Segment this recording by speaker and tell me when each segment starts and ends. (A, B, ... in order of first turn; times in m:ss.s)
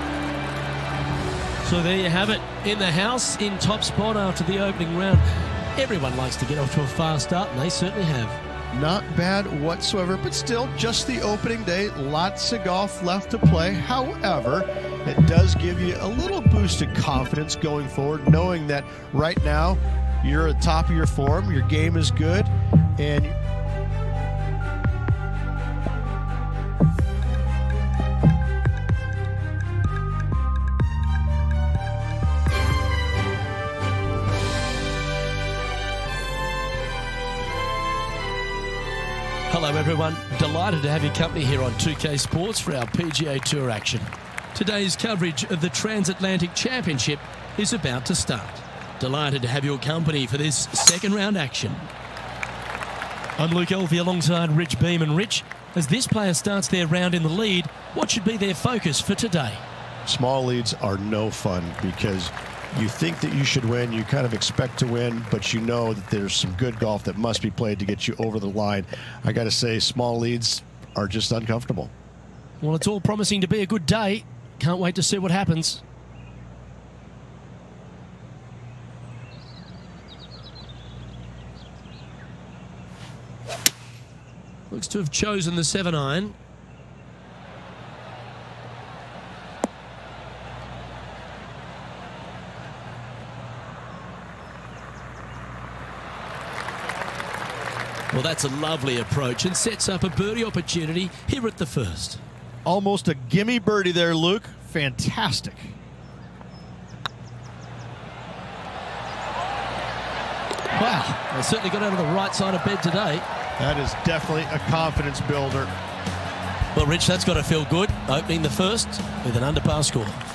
0:01.6-0:08.4 A
0:08.7-0:23.4 B
0:39.5-0:51.9 A
0:53.4-0:59.6 A
1:00.0-1:11.9 B
1:12.6-1:15.8 A
1:24.7-1:26.4 A
1:38.1-1:42.2 A
1:42.6-1:45.8 B
1:50.7-1:53.2 A
1:53.6-1:55.7 B
1:56.7-2:00.2 A